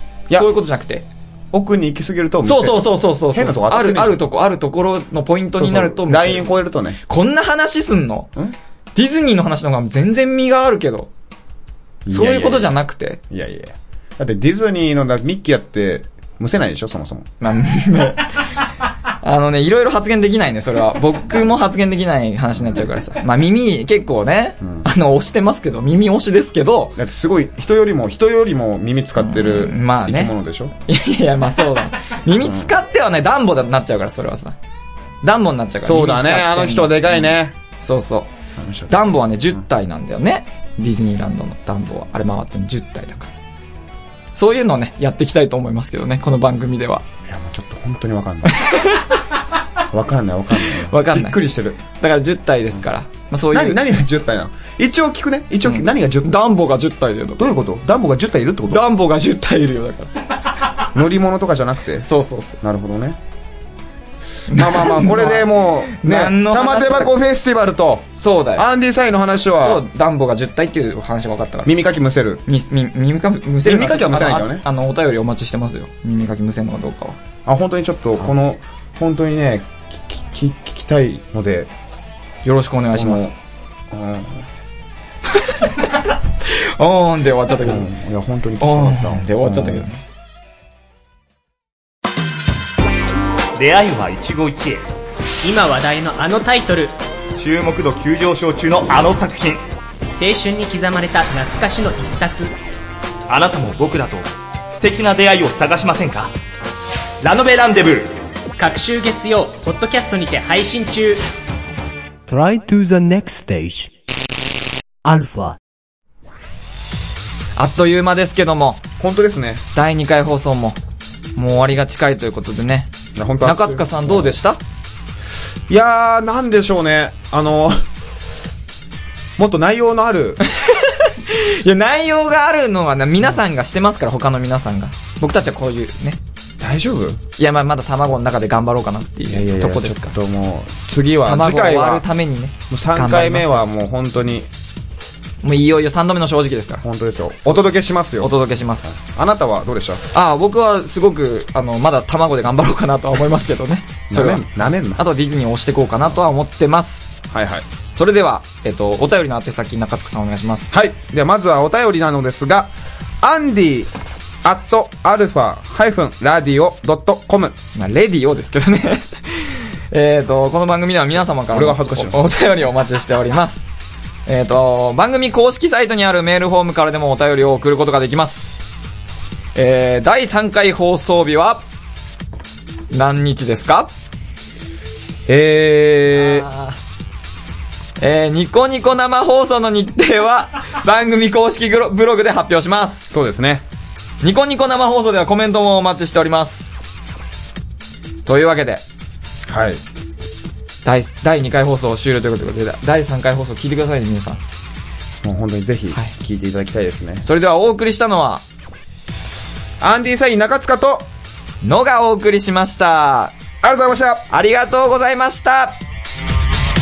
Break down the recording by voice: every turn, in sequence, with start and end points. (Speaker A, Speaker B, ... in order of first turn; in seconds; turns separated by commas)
Speaker A: 0.3-1.1, Speaker B: 1.5-4.2, Speaker A: 2.4-6.5, Speaker B: 5.6-7.0, Speaker A: 7.0-8.3, Speaker A: 9.0-11.1, Speaker B: 12.1-12.8, Speaker A: 12.1-13.2, Speaker B: 13.3-17.3, Speaker A: 17.4-18.5, Speaker A: 19.2-27.0, Speaker B: 24.6-24.9, Speaker B: 27.0-30.7, Speaker A: 29.2-34.6, Speaker B: 32.4-32.7, Speaker A: 35.2-38.3, Speaker B: 35.8-37.5, Speaker B: 38.6-39.0, Speaker A: 38.9-43.3, Speaker A: 44.4-47.1, Speaker B: 47.2-48.7, Speaker A: 48.5-49.2, Speaker B: 49.9-51.8, Speaker A: 50.6-53.8, Speaker B: 53.5-56.4, Speaker A: 55.6-57.5, Speaker B: 57.4-58.9, Speaker A: 58.7-60.3, Speaker B: 60.8-62.1, Speaker A: 62.0-62.6, Speaker B: 62.6-63.2, Speaker A: 64.5-67.2, Speaker B: 64.5-69.8, Speaker A: 68.2-68.7, Speaker A: 69.6-71.7, Speaker B: 71.6-72.4, Speaker A: 72.5-77.2, Speaker B: 73.6-74.6, Speaker B: 77.5-81.7, Speaker A: 82.4-83.3, Speaker B: 82.9-83.3, Speaker B: 83.9-84.5, Speaker A: 85.3-87.9, Speaker B: 87.6-89.9, Speaker A: 88.6-90.0, Speaker C: 93.6-94.8, Speaker D: 95.4-97.0, Speaker C: 97.4-99.6, Speaker D: 100.1-102.5, Speaker C: 103.3-106.3, Speaker C: 107.2-108.2, Speaker D: 108.6-111.3, Speaker E: 112.3-113.9, Speaker E: 115.0-115.6, Speaker A: 117.6-118.8, Speaker B: 119.0-119.6, Speaker A: 119.7-120.8, Speaker A: 121.4-124.6, Speaker B: 123.1-124.4, Speaker B: 125.7-127.8, Speaker B: 129.4-130.4, Speaker A: 130.5-136.2, Speaker B: 136.6-137.2, Speaker A: 137.4-140.1, Speaker B: 139.3-142.1, Speaker A: 141.2-143.7, Speaker B: 142.7-144.5, Speaker A: 145.4-146.8, Speaker B: 146.8-150.0, Speaker A: 148.2-148.9, Speaker A: 150.1-157.2, Speaker B: 154.1-155.0, Speaker B: 157.3-157.7, Speaker A: 157.9-160.7, Speaker B: 160.7-163.9, Speaker B: 164.4-167.6, Speaker A: 167.7-173.6, Speaker B: 171.5-172.2, Speaker A: 174.3-178.6, Speaker A: 179.6-181.6, Speaker A: 182.9-183.9, Speaker B: 185.3-186.5, Speaker A: 186.1-186.8, Speaker A: 188.0-193.1, Speaker B: 193.1-193.6, Speaker A: 194.2-196.8, Speaker A: 198.3-198.8, Speaker B: 199.5-199.8, Speaker A: 200.8-204.4, Speaker B: 205.2-207.3, Speaker A: 207.2-208.4, Speaker B: 209.8-211.1, Speaker A: 211.6-213.3, Speaker B: 213.6-214.3, Speaker A: 214.3-215.8